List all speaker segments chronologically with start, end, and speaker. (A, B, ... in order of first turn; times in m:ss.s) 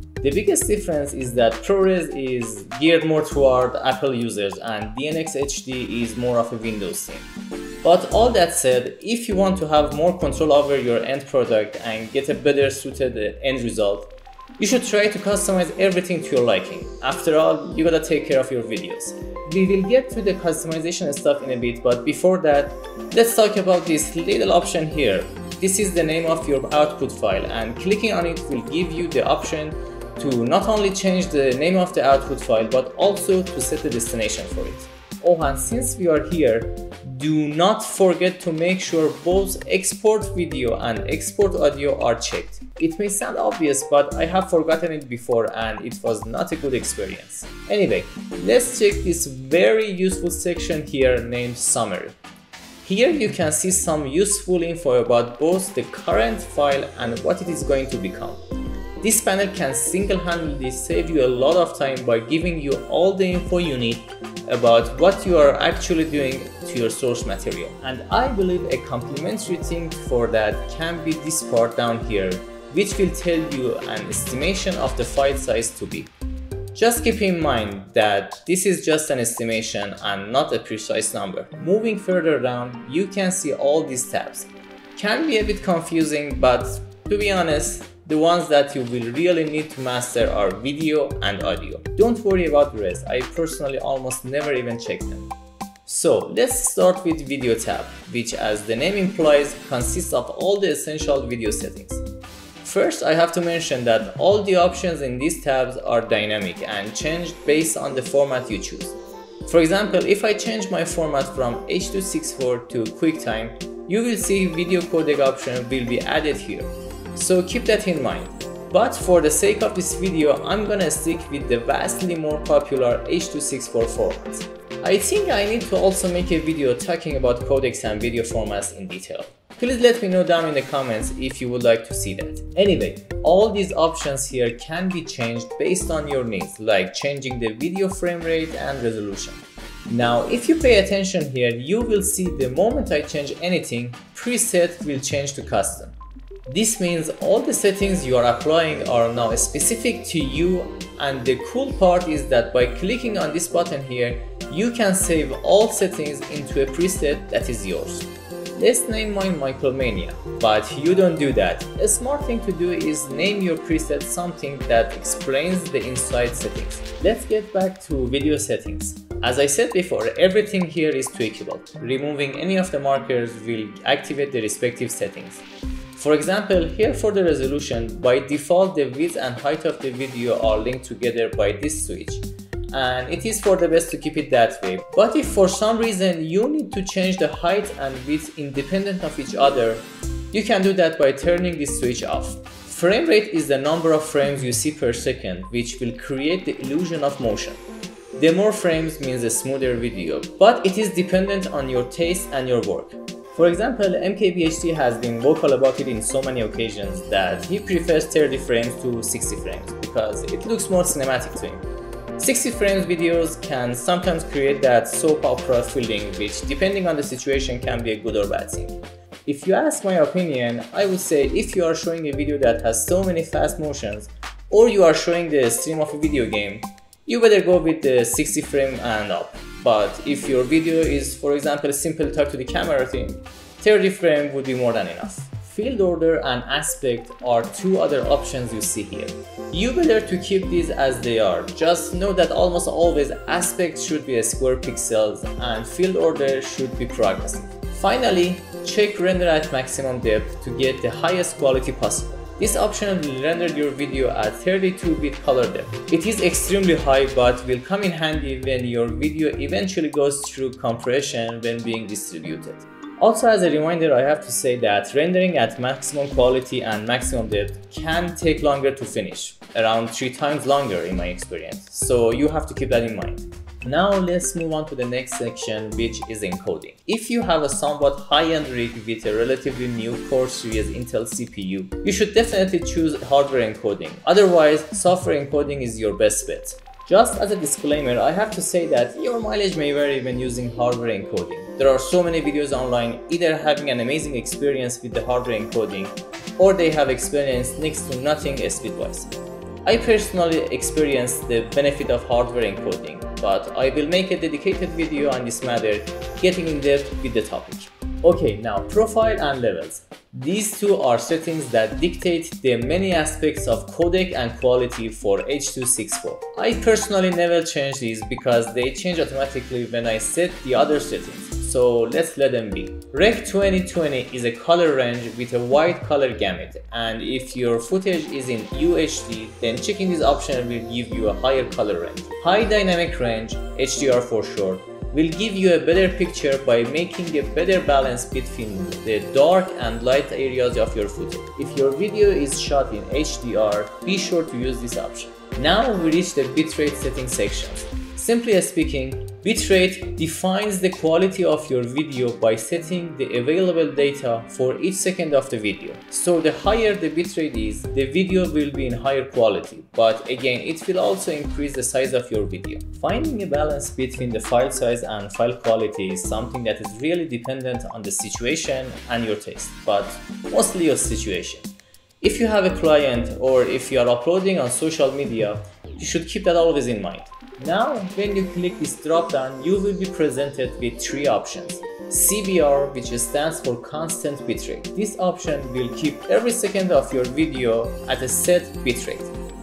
0:00.2-0:07.2 A
0:07.8-0:52.2 A
0:52.8-0:58.4 A
0:59.0-1:16.1 A
1:16.7-1:35.3 A
1:35.8-1:42.0 A
1:42.6-1:48.9 A
1:49.4-2:26.0 A
2:26.5-2:55.4 A
2:55.9-3:17.6 A
3:18.2-3:31.6 A
3:32.2-4:59.1 A
4:59.6-6:29.1 A